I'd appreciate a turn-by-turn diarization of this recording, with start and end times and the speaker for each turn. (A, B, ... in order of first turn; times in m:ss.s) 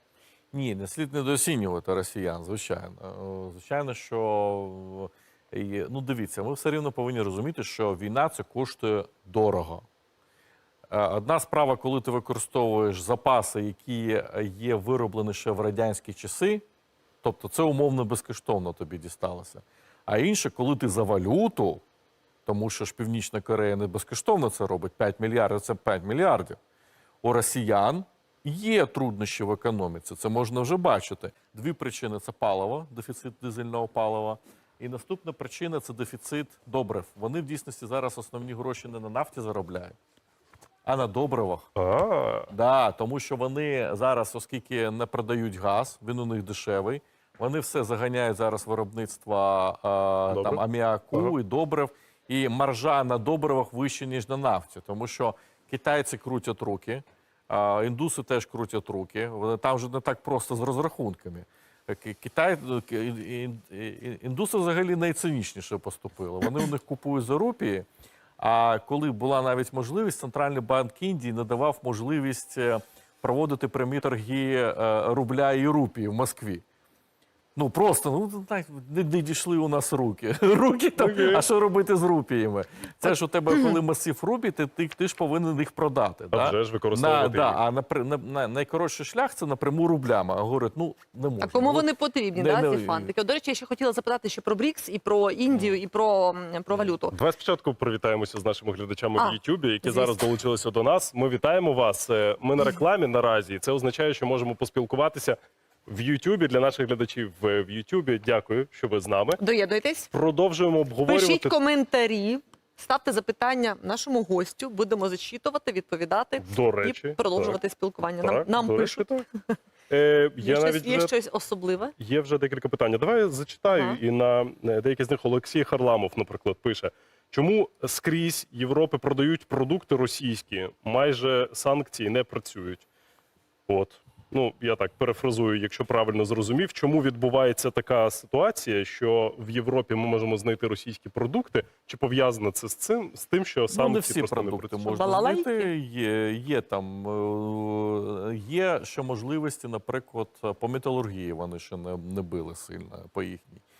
0:00.5-0:09.8 A
0:10.9-0:16.6 A
0:17.2-0:21.8 A
0:22.4-0:26.6 A
0:27.2-0:40.0 A
0:40.8-0:41.7 A
0:41.8-0:42.5 B
0:42.5-1:07.9 A
0:50.3-0:50.6 B
1:08.4-1:16.6 A
1:17.6-1:33.1 A
1:21.0-1:21.4 B
1:26.3-1:27.6 B
1:31.4-1:37.1 C
1:36.9-1:49.4 B
1:39.2-1:40.2 C
1:49.4-1:50.1 C
1:50.1-1:51.5 B
1:51.1-1:59.5 C
1:56.4-1:57.6 B
1:58.2-1:59.3 B
1:59.9-2:01.1 B
2:00.4-2:01.9 C
2:02.0-2:12.8 B
2:03.7-2:04.0 C
2:13.7-2:24.9 B
2:23.7-2:33.6 A
2:24.9-2:25.7 C